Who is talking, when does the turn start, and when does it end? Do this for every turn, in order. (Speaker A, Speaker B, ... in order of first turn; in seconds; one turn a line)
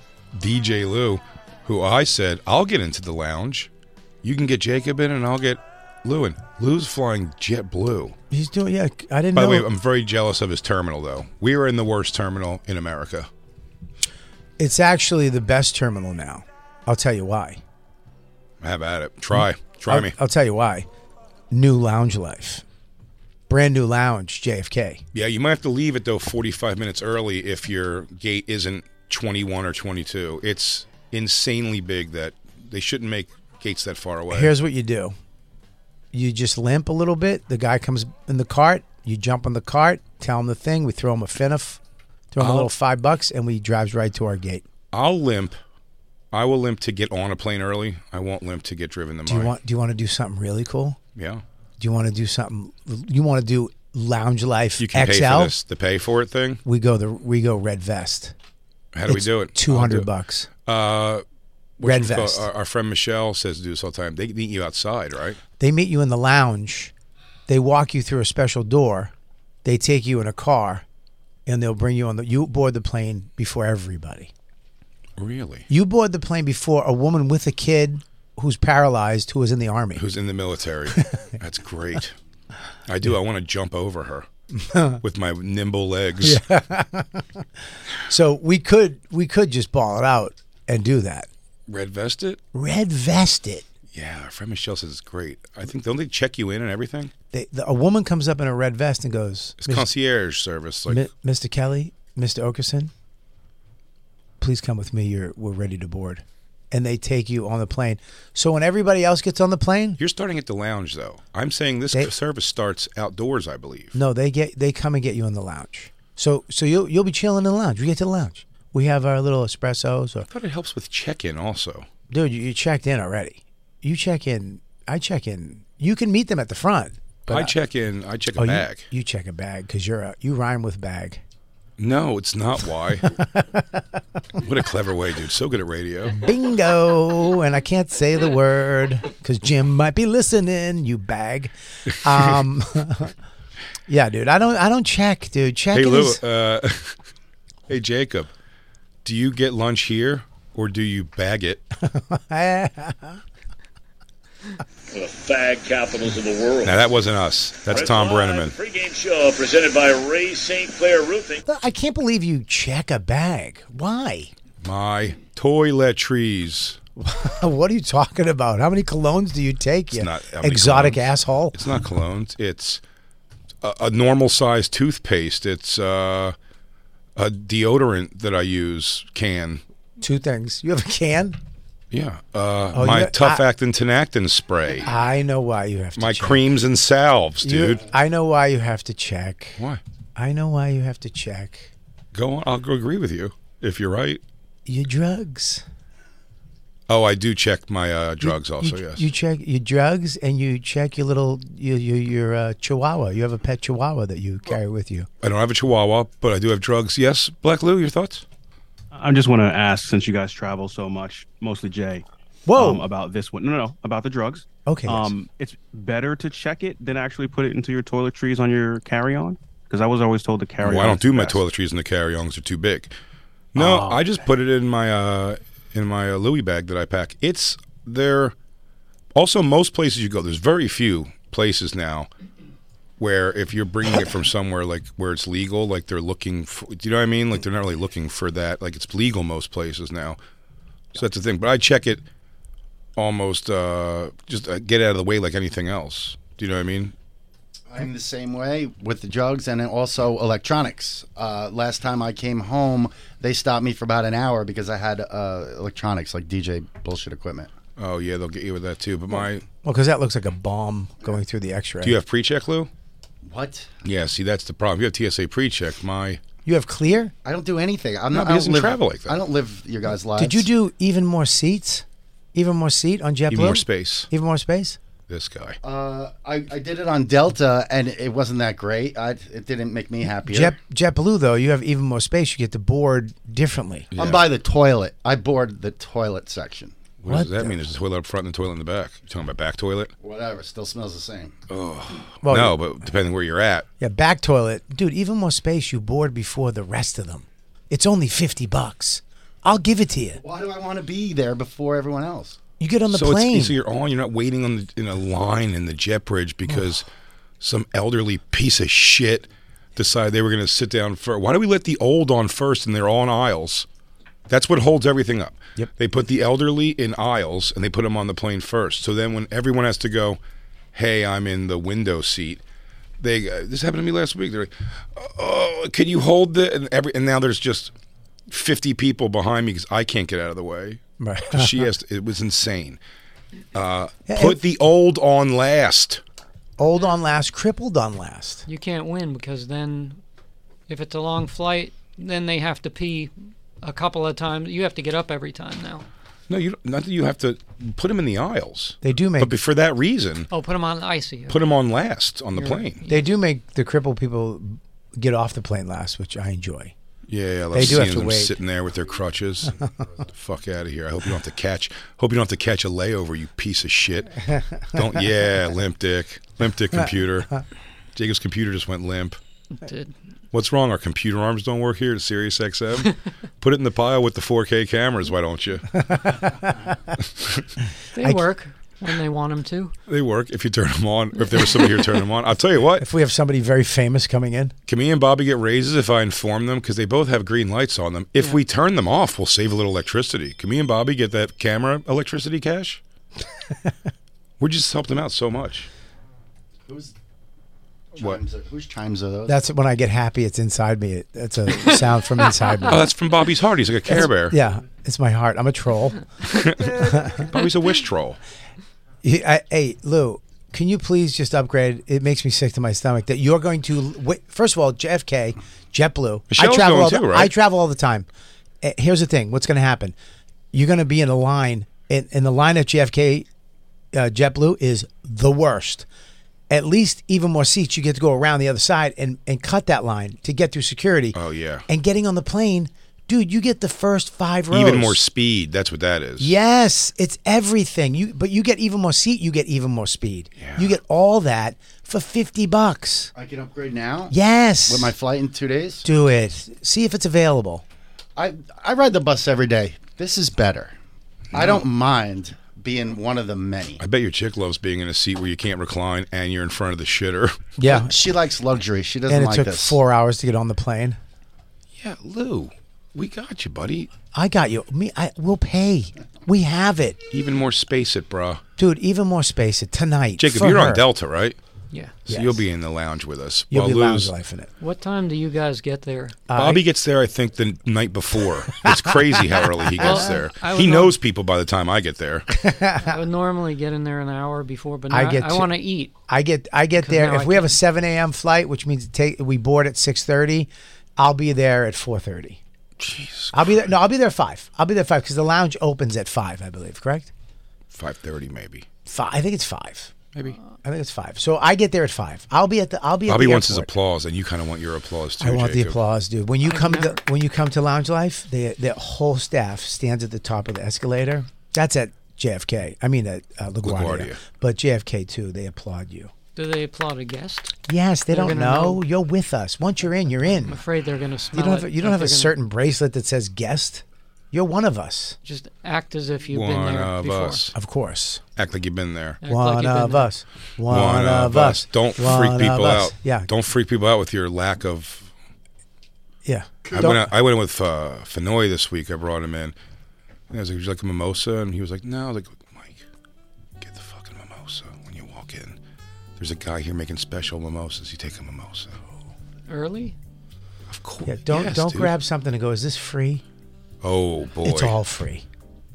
Speaker A: 0.3-3.7
Speaker A: 4.2-8.2
Speaker B: 8.3-9.7
Speaker A: 9.3-13.3
Speaker B: 14.6-17.6
Speaker A: 18.6-20.1
Speaker B: 19.4-20.9
Speaker B: 21.5-22.6
Speaker B: 23.5-25.0
Speaker A: 25.1-34.5
Speaker B: 34.3-35.2
Speaker B: 36.1-41.8
Speaker B: 42.3-44.6
Speaker A: 42.4-42.7
Speaker A: 44.9-45.6
Speaker A: 46.3-49.5
Speaker B: 49.3-51.0
Speaker A: 51.2-51.4
Speaker B: 51.8-55.5
Speaker A: 54.8-56.6
Speaker B: 56.6-58.4
Speaker A: 58.9-60.1
Speaker B: 59.1-60.5
Speaker A: 60.7-61.2
Speaker A: 61.8-65.4
Speaker B: 61.8-62.5
Speaker B: 65.6-66.9
Speaker B: 67.5-69.1
Speaker B: 69.6-70.8
Speaker B: 71.5-74.3
Speaker A: 75.2-75.7
Speaker B: 75.7-80.0
Speaker A: 80.0-82.2
Speaker A: 82.9-84.3
Speaker B: 84.5-85.0
Speaker A: 85.0-86.4
Speaker B: 86.2-87.5
Speaker B: 88.0-91.3
Speaker A: 91.7-92.4
Speaker B: 92.5-93.7
Speaker A: 93.9-97.1
Speaker B: 97.3-99.9
Speaker A: 99.6-101.0
Speaker B: 100.9-102.9
Speaker B: 104.4-110.0
Speaker A: 110.0-114.0
Speaker B: 114.0-120.3
Speaker A: 120.3-121.9
Speaker B: 122.1-127.5
Speaker A: 127.3-128.9
Speaker B: 128.4-131.2
Speaker A: 131.8-133.1
Speaker B: 133.0-133.8
Speaker A: 134.4-136.2
Speaker B: 136.1-143.1
Speaker B: 143.9-146.2
Speaker A: 145.7-147.0
Speaker A: 147.7-148.3
Speaker A: 149.0-151.6
Speaker B: 151.8-153.2
Speaker C: 154.9-156.9
Speaker A: 156.7-158.5
Speaker C: 157.7-161.4
Speaker B: 161.5-164.3
Speaker A: 164.6-166.8
Speaker B: 167.0-171.6
Speaker A: 169.9-172.8
Speaker A: 173.6-176.3
Speaker A: 177.2-179.6
Speaker B: 180.0-181.4
Speaker A: 181.9-184.9
Speaker B: 182.7-183.4
Speaker B: 184.8-186.4
Speaker A: 186.0-187.8
Speaker B: 187.4-189.6
Speaker B: 190.2-191.7
Speaker A: 192.1-194.2
Speaker B: 194.7-195.6
Speaker A: 196.9-199.0
Speaker B: 198.2-205.1
Speaker A: 205.2-208.2
Speaker D: 208.9-221.4
Speaker B: 212.5-212.9
Speaker B: 214.7-215.1
Speaker A: 220.6-222.9
Speaker A: 223.5-228.3
Speaker B: 223.6-224.0
Speaker A: 229.2-232.1
Speaker A: 233.0-240.2
Speaker A: 240.9-242.0
Speaker A: 243.0-246.9
Speaker E: 247.7-257.5
Speaker A: 257.8-259.4
Speaker B: 259.6-262.0
Speaker A: 261.8-262.7
Speaker E: 263.2-263.7
Speaker A: 263.8-266.2
Speaker B: 266.4-267.1
Speaker E: 267.2-270.5
Speaker A: 268.1-269.2
Speaker B: 270.2-274.8
Speaker A: 273.3-274.1
Speaker A: 275.1-275.6
Speaker E: 275.6-280.6
Speaker B: 280.2-283.9
Speaker A: 283.9-284.3
Speaker E: 284.0-286.8
Speaker A: 287.0-289.9
Speaker B: 287.1-287.6
Speaker E: 290.0-291.3
Speaker A: 291.5-293.7
Speaker B: 292.2-292.6
Speaker B: 293.8-300.2
Speaker E: 300.2-302.4
Speaker B: 302.6-303.6
Speaker A: 302.9-306.9
Speaker B: 306.5-306.8
Speaker A: 307.4-313.7
Speaker A: 314.3-320.2
Speaker A: 320.7-322.4
Speaker A: 323.0-327.7
Speaker A: 328.3-332.8
Speaker B: 331.0-331.7
Speaker A: 333.5-336.0
Speaker B: 334.1-334.4
Speaker B: 336.6-338.4
Speaker F: 338.5-340.0
Speaker F: 340.7-345.9
Speaker A: 346.3-350.3
Speaker B: 348.8-349.3
Speaker F: 350.3-351.4
Speaker A: 351.3-352.8
Speaker F: 352.4-353.1
Speaker B: 352.9-356.7
Speaker A: 357.1-359.6
Speaker B: 357.5-358.4
Speaker A: 360.1-367.4
Speaker B: 364.3-364.9
Speaker A: 367.9-369.2
Speaker F: 369.6-370.0
Speaker A: 370.3-375.9
Speaker B: 375.8-376.6
Speaker A: 377.2-377.5
Speaker F: 377.9-379.7
Speaker A: 379.9-382.9
Speaker B: 382.8-384.5
Speaker A: 384.7-392.8
Speaker A: 394.4-395.7
Speaker E: 396.7-396.9
Speaker E: 398.0-399.4
Speaker B: 399.3-402.9
Speaker F: 401.6-402.7
Speaker A: 402.7-404.4
Speaker B: 403.9-406.1
Speaker A: 406.3-408.2
Speaker B: 406.6-407.3
Speaker B: 409.0-418.1
Speaker A: 416.3-417.3
Speaker B: 418.6-420.0
Speaker B: 420.5-423.3
Speaker B: 423.9-425.9
Speaker B: 426.5-435.0
Speaker A: 431.1-431.6
Speaker A: 434.5-436.4
Speaker B: 436.2-443.1
Speaker A: 440.4-440.7
Speaker E: 443.1-444.1
Speaker B: 444.1-444.9
Speaker E: 444.7-445.9
Speaker B: 445.8-447.6
Speaker E: 448.2-450.8
Speaker E: 451.3-453.8
Speaker A: 451.4-451.6
Speaker A: 453.8-457.4
Speaker B: 457.6-457.9
Speaker E: 457.6-459.8
Speaker B: 459.1-461.0
Speaker A: 461.8-463.9
Speaker B: 464.1-467.0
Speaker A: 467.1-468.4
Speaker B: 468.6-470.8
Speaker A: 470.2-471.4
Speaker A: 472.1-474.1
Speaker B: 472.1-472.4
Speaker B: 473.5-474.5
Speaker F: 474.6-476.2
Speaker B: 476.3-476.6
Speaker A: 476.3-482.3
Speaker B: 478.6-480.1
Speaker F: 479.8-481.0
Speaker B: 482.3-483.0
Speaker F: 482.8-485.9
Speaker B: 484.9-492.4
Speaker F: 486.8-487.6
Speaker A: 492.8-493.4
Speaker B: 493.3-497.1
Speaker A: 497.7-498.7
Speaker B: 498.9-499.9
Speaker B: 500.6-503.7
Speaker A: 503.1-505.8
Speaker B: 505.2-516.1
Speaker F: 506.4-507.0
Speaker A: 513.6-514.2
Speaker F: 516.4-517.5
Speaker B: 517.7-520.6
Speaker F: 518.1-518.8
Speaker F: 520.5-522.4
Speaker B: 521.3-525.2
Speaker F: 525.2-527.5
Speaker A: 526.3-527.5
Speaker B: 527.5-528.2
Speaker A: 528.4-529.2
Speaker F: 529.2-530.1
Speaker B: 529.2-533.3
Speaker A: 530.7-535.1
Speaker B: 536.2-537.1
Speaker A: 536.7-539.5
Speaker A: 540.3-542.9
Speaker A: 543.6-545.6
Speaker A: 546.2-548.8
Speaker F: 549.5-550.0
Speaker A: 550.7-551.9
Speaker B: 551.0-553.2
Speaker A: 553.8-554.8
Speaker B: 554.4-555.2